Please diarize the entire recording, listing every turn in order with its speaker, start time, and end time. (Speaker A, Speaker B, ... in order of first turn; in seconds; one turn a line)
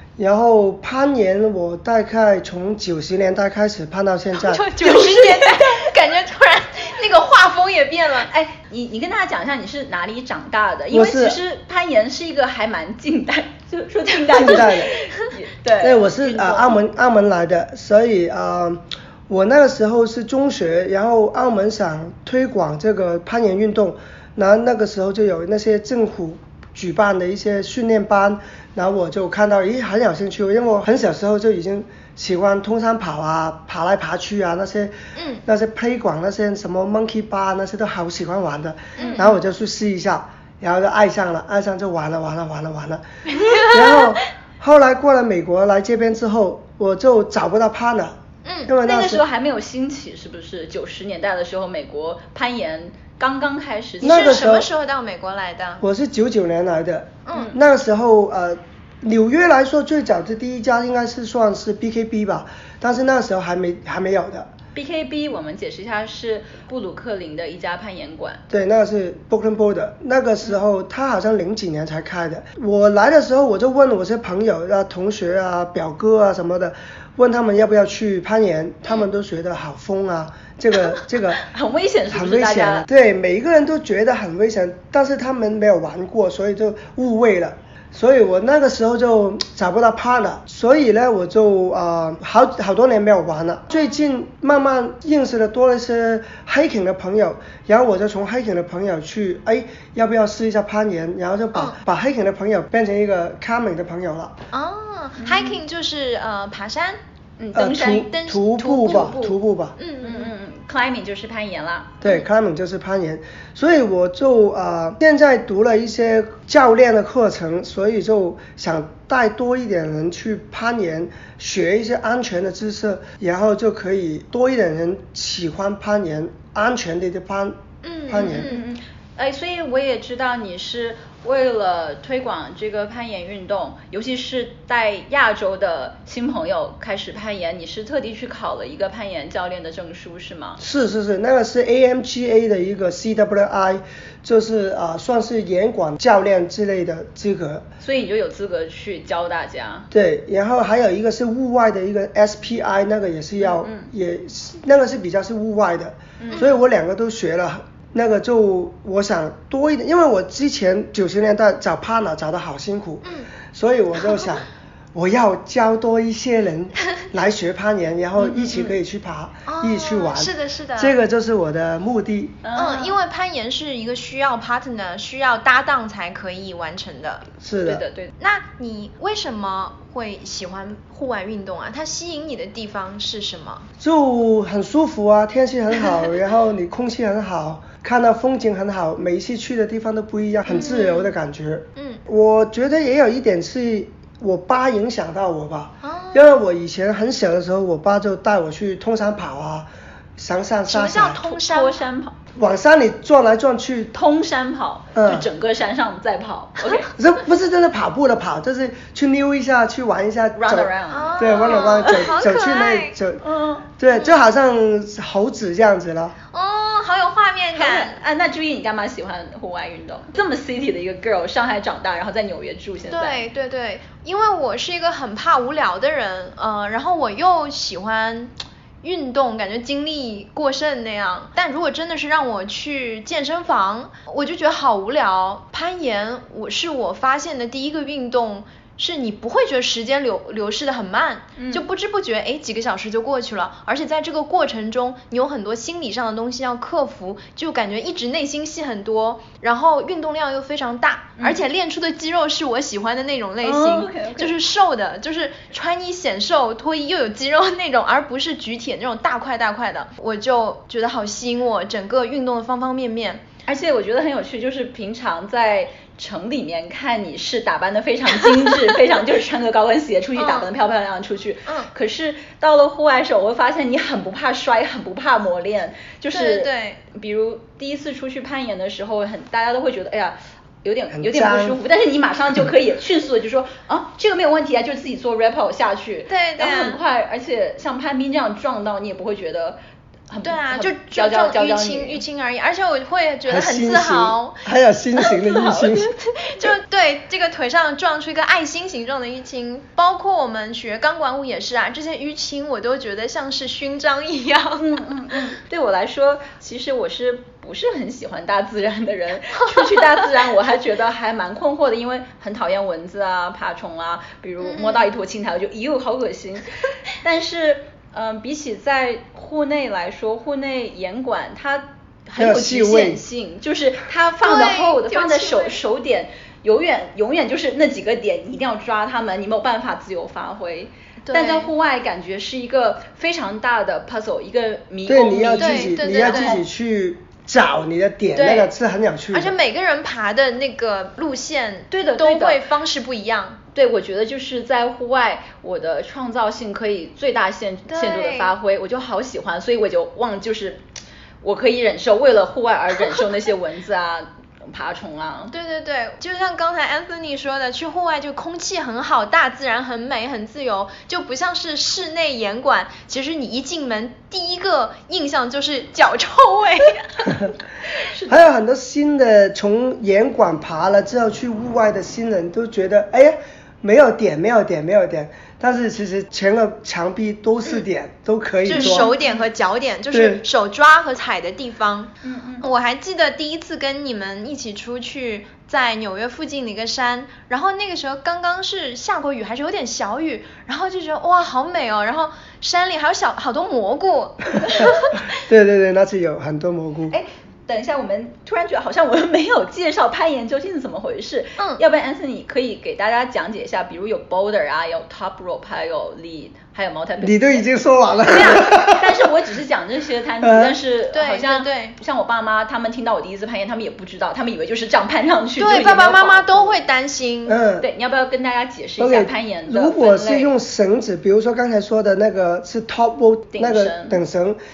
Speaker A: 0.2-4.6
Speaker B: 4.3-8.3
Speaker C: 4.8-5.8
Speaker C: 8.3-16.8
Speaker A: 10.9-11.4
Speaker A: 14.3-14.9
Speaker A: 15.8-43.0
Speaker B: 35.1-35.4
Speaker B: 39.0-39.3
Speaker C: 39.0-39.3
Speaker B: 43.3-44.1
Speaker A: 43.6-49.2
Speaker B: 48.4-48.7
Speaker C: 48.8-54.4
Speaker A: 54.0-54.7
Speaker B: 54.0-55.8
Speaker A: 55.8-64.5
Speaker B: 57.3-57.5
Speaker C: 64.7-68.4
Speaker A: 68.5-81.4
Speaker C: 81.4-82.8
Speaker A: 82.1-104.3
Speaker B: 104.5-107.0
Speaker C: 105.2-105.6
Speaker C: 107.4-108.1
Speaker A: 107.5-109.8
Speaker B: 107.9-109.2
Speaker C: 108.8-109.3
Speaker B: 109.8-110.3
Speaker C: 110.0-112.0
Speaker A: 112.0-128.5
Speaker B: 127.8-128.6
Speaker C: 128.2-140.6
Speaker A: 140.6-147.7
Speaker C: 147.8-149.9
Speaker A: 149.9-172.4
Speaker C: 153.4-153.9
Speaker C: 156.2-156.5
Speaker C: 168.2-168.8
Speaker B: 169.4-170.9
Speaker C: 172.4-173.0
Speaker B: 172.6-177.2
Speaker A: 177.4-177.8
Speaker C: 177.7-178.1
Speaker B: 178.2-183.7
Speaker A: 183.8-201.2
Speaker B: 190.5-191.1
Speaker B: 191.8-192.0
Speaker B: 195.8-196.2
Speaker B: 200.7-201.8
Speaker C: 201.2-202.2
Speaker A: 202.3-203.9
Speaker C: 203.9-206.9
Speaker A: 204.9-205.3
Speaker A: 206.9-213.2
Speaker C: 210.4-212.1
Speaker B: 210.9-212.9
Speaker C: 213.2-213.6
Speaker A: 213.8-216.1
Speaker B: 216.3-218.0
Speaker C: 217.5-223.2
Speaker B: 222.9-263.2
Speaker C: 241.4-241.6
Speaker C: 253.4-254.3
Speaker C: 263.4-292.0
Speaker B: 270.2-270.5
Speaker B: 276.1-276.8
Speaker A: 280.9-281.6
Speaker B: 286.1-286.8
Speaker B: 290.2-294.4
Speaker A: 293.3-295.9
Speaker C: 295.1-295.8
Speaker B: 296.1-304.6
Speaker C: 304.6-336.4
Speaker B: 314.4-314.9
Speaker A: 322.2-323.0
Speaker B: 324.2-325.6
Speaker B: 331.0-331.5
Speaker A: 334.9-339.3
Speaker B: 335.4-336.4
Speaker B: 338.1-338.5
Speaker B: 339.1-343.4
Speaker C: 341.7-342.4
Speaker C: 343.5-350.6
Speaker B: 347.7-348.3
Speaker C: 351.2-355.3
Speaker B: 355.3-367.2
Speaker C: 367.9-368.3
Speaker A: 368.1-378.9
Speaker B: 378.4-395.0
Speaker C: 378.5-379.1
Speaker A: 379.9-380.2
Speaker C: 382.0-382.4
Speaker A: 395.1-397.0
Speaker C: 396.9-407.4
Speaker A: 407.0-409.0
Speaker C: 408.0-416.6
Speaker A: 410.2-410.6
Speaker B: 410.9-411.7
Speaker B: 415.4-417.4
Speaker A: 417.3-417.7
Speaker C: 417.6-420.3
Speaker A: 418.8-424.4
Speaker C: 423.3-424.0